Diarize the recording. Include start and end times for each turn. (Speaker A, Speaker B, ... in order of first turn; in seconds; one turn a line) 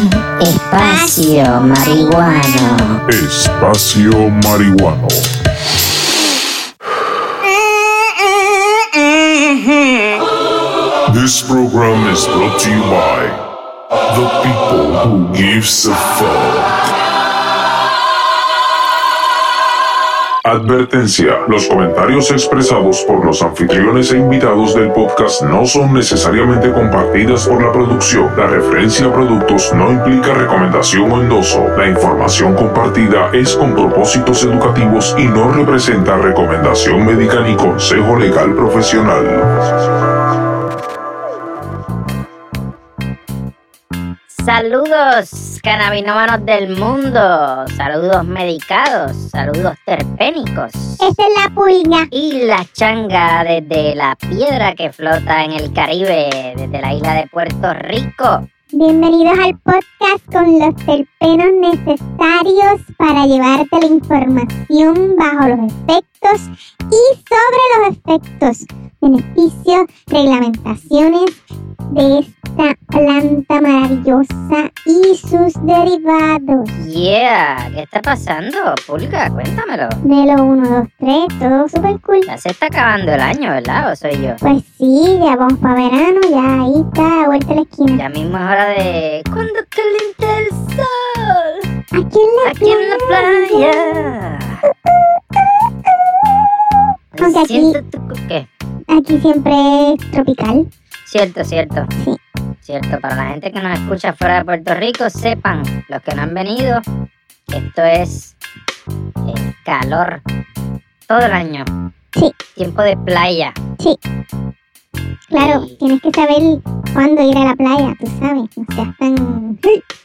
Speaker A: 0.4-3.0
Speaker B: 0.8-2.8
Speaker C: 3.1-5.3
Speaker C: 11.1-13.3
Speaker C: 14.1-16.7
Speaker C: 20.4-39.4
Speaker A: 44.3-51.1
Speaker B: 51.0-52.1
Speaker A: 52.1-58.4
Speaker B: 58.7-71.4
Speaker B: 71.9-76.8
Speaker A: 76.8-80.0
Speaker B: 80.0-82.3
Speaker A: 82.3-84.4
Speaker B: 84.4-88.0
Speaker A: 87.9-91.6
Speaker B: 91.9-94.1
Speaker A: 92.4-94.6
Speaker B: 94.8-95.5
Speaker A: 97.1-98.5
Speaker B: 97.2-97.8
Speaker B: 98.9-100.6
Speaker A: 101.0-101.9
Speaker A: 102.6-106.8
Speaker A: 107.5-108.3
Speaker A: 109.2-110.2
Speaker A: 111.1-111.7
Speaker A: 112.5-113.5
Speaker B: 115.3-119.8
Speaker A: 115.4-115.8